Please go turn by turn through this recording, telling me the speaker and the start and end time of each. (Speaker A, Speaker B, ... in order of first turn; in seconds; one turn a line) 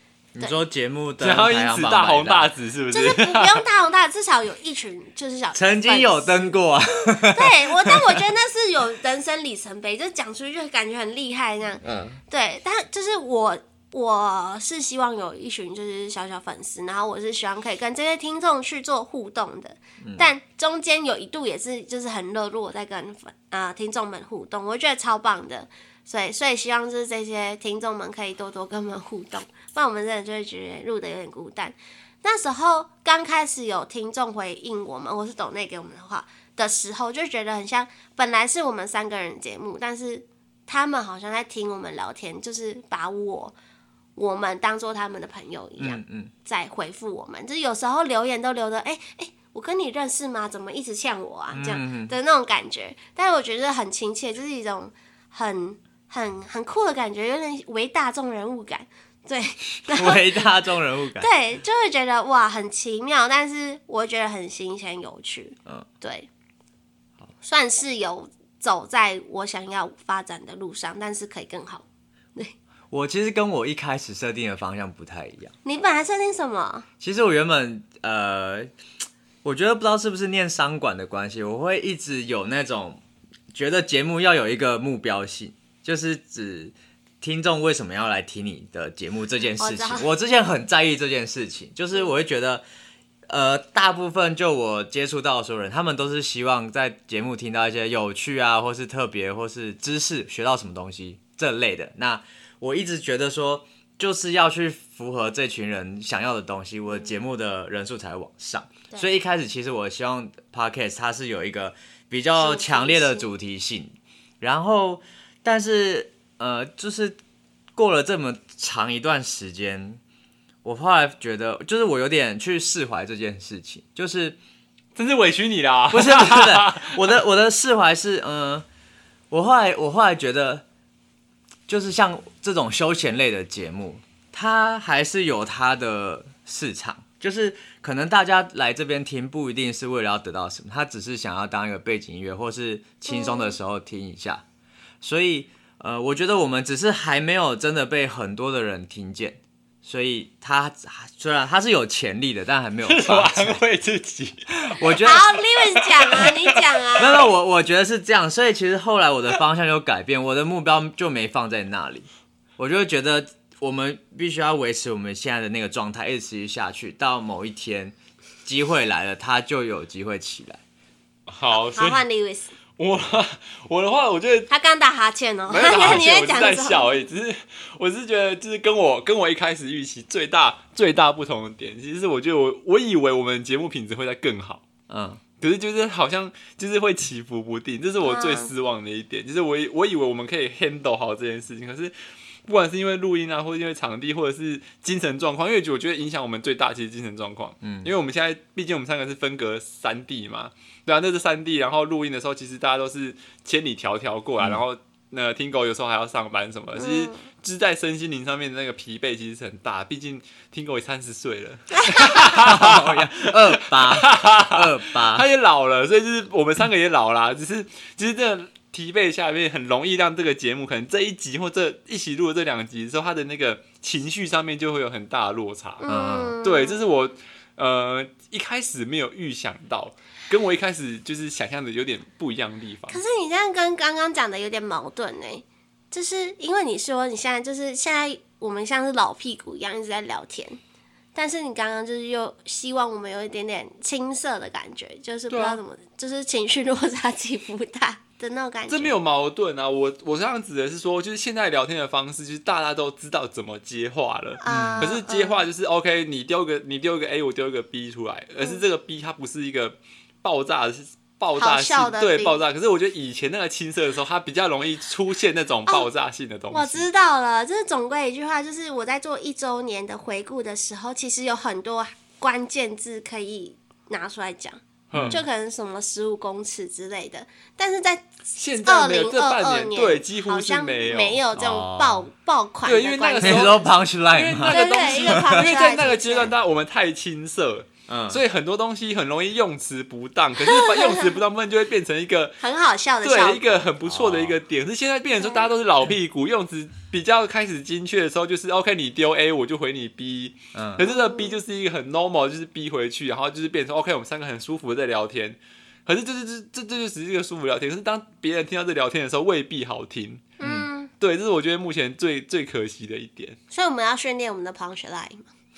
Speaker A: 0.3-2.5
Speaker B: 1.2-3.6
Speaker C: 2.9-43.5
Speaker A: 5.5-8.2
Speaker A: 11.8-12.2
Speaker A: 20.0-20.3
Speaker C: 44.1-60.5
Speaker A: 45.8-46.3
Speaker A: 51.5-52.1
Speaker A: 59.9-61.3
Speaker C: 61.2-66.3
Speaker C: 67.4-71.8
Speaker A: 72.9-75.5
Speaker C: 75.6-76.8
Speaker A: 77.0-78.7
Speaker A: 79.4-83.0
Speaker A: 83.5-92.6
Speaker C: 89.6-90.1
Speaker A: 93.3-117.2
Speaker C: 112.4-113.3
Speaker A: 117.7-120.0
Speaker A: 120.6-124.4
Speaker B: 125.0-127.0
Speaker A: 125.9-128.7
Speaker A: 129.3-130.6
Speaker A: 131.7-144.4
Speaker C: 143.1-143.6
Speaker A: 145.0-153.6
Speaker B: 152.8-156.8
Speaker A: 154.7-155.3
Speaker C: 155.0-157.2
Speaker A: 157.0-162.1
Speaker A: 162.6-170.6
Speaker B: 171.3-172.0
Speaker C: 171.7-172.5
Speaker B: 172.8-174.5
Speaker C: 174.5-177.1
Speaker B: 175.5-184.7
Speaker A: 184.9-185.2
Speaker B: 185.4-191.9
Speaker C: 188.0-188.5
Speaker B: 192.5-225.8
Speaker A: 197.6-197.9
Speaker C: 206.8-207.2
Speaker C: 211.8-212.2
Speaker A: 212.3-215.2
Speaker C: 225.8-226.9
Speaker A: 225.9-226.4
Speaker B: 226.4-233.0
Speaker C: 232.9-240.6
Speaker C: 241.1-248.9
Speaker B: 245.3-245.6
Speaker B: 248.7-266.9
Speaker C: 254.4-255.4
Speaker A: 254.4-254.9
Speaker C: 261.4-262.4
Speaker C: 266.5-283.6
Speaker B: 274.9-275.2
Speaker A: 274.9-275.2
Speaker B: 278.3-281.2
Speaker A: 281.3-282.1
Speaker B: 282.6-292.4
Speaker A: 283.2-285.5
Speaker C: 284.4-286.3
Speaker A: 287.9-288.2
Speaker C: 290.4-291.1
Speaker C: 292.4-293.6
Speaker B: 293.0-310.3
Speaker A: 293.8-294.4
Speaker C: 295.2-295.5
Speaker A: 300.5-300.8
Speaker C: 300.8-301.4
Speaker C: 310.4-310.9
Speaker A: 310.4-310.7
Speaker B: 311.0-313.4
Speaker C: 313.5-315.3